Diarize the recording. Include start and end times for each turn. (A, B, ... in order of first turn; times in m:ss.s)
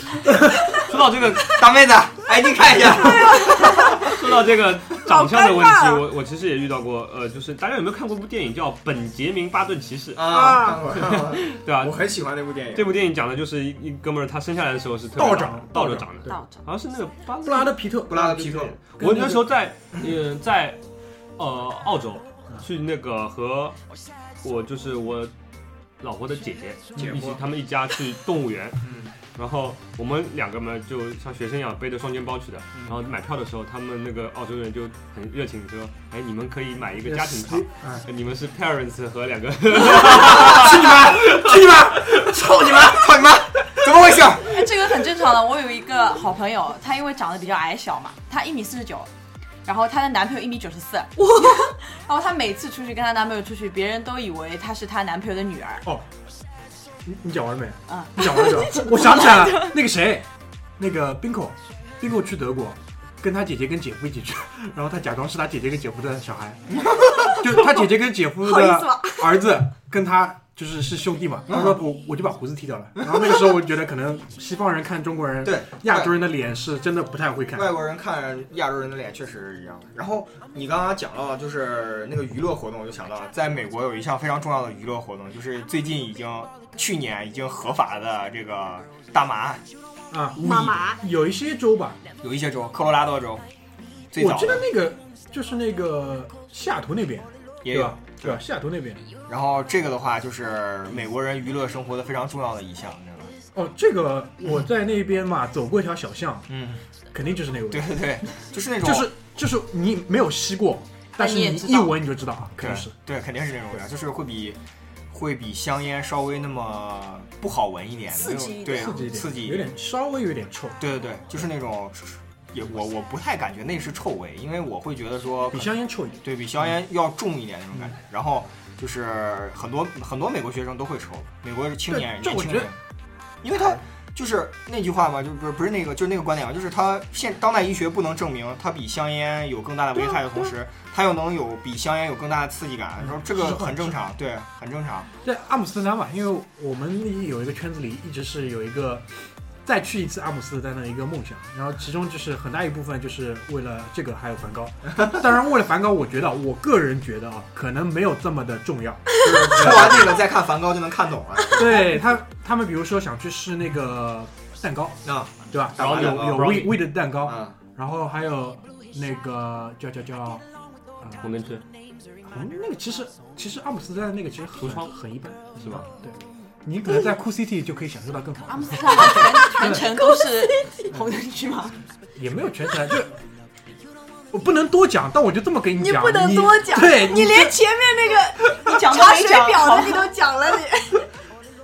0:00.2-0:00.8 A
0:00.8-0:01.6 B
0:01.4-0:04.1 C
0:02.7-0:04.1 D
0:03.7-0:10.3 B
0:05.0-0:06.0 D
0:10.1-0:12.9 C
0:10.3-0:10.8 D
0:10.9-0:12.0 B
0:12.7-0:18.2 B
0:15.2-0:16.4 A
0:16.3-0:16.6 E
0:17.4-0:19.4 A
0:18.1-0:18.8 C
0:18.8-0:20.8 B
0:21.4-0:23.8 B
0:24.4-0:25.3 B
0:26.0-0:42.8 B
0:27.0-0:27.2 A
0:27.0-0:27.4 C
0:28.8-0:29.1 C
0:36.9-0:38.1 A
0:39.9-0:43.1 A
0:40.4-0:41.0 C
0:42.8-0:44.6 C
0:44.4-0:49.1 E
0:49.6-0:55.8 E
0:51.3-0:51.7 D
0:57.0-1:00.2 A
0:57.9-0:59.8 E
1:00.8-1:06.6 A
1:06.7-1:07.4 C
1:07.2-1:17.7 A
1:08.4-1:09.4 D
1:11.5-1:11.8 C
1:13.0-1:13.4 C
1:15.4-1:16.1 C
1:17.5-1:29.6 C
1:30.1-1:32.0 A
1:30.4-1:31.0 D
1:32.2-1:33.4 C
1:34.1-1:34.7 C
1:34.2-1:39.1 A
1:37.6-1:38.4 C
1:39.3-1:43.3 C
1:43.5-1:46.5 A
1:46.5-1:46.8 C
1:47.1-1:48.0 A
1:47.7-1:49.1 C
1:48.8-1:52.9 A
1:51.2-1:52.0 E
1:52.6-1:54.6 C
1:55.1-1:59.7 C
1:58.1-1:59.0 D
1:58.6-2:00.8 A
2:00.8-2:12.8 C
2:05.5-2:06.2 A
2:11.9-2:12.7 A
2:13.4-2:25.1 C
2:20.0-2:20.5 A
2:23.0-2:24.0 A
2:25.2-2:29.0 A
2:29.6-2:40.1 A
2:34.9-2:35.2 C
2:39.2-2:41.8 C
2:41.5-2:50.4 A
2:45.0-2:47.6 C
2:45.8-2:46.9 B
2:51.0-2:51.3 A
2:51.2-2:51.6 B
2:52.2-2:59.8 A
2:54.6-2:55.0 B
2:58.5-3:01.8 E
2:59.1-3:00.9 D
3:02.2-3:03.2 A
3:04.3-3:07.5 A
3:05.8-3:11.0 D
3:08.6-3:10.1 E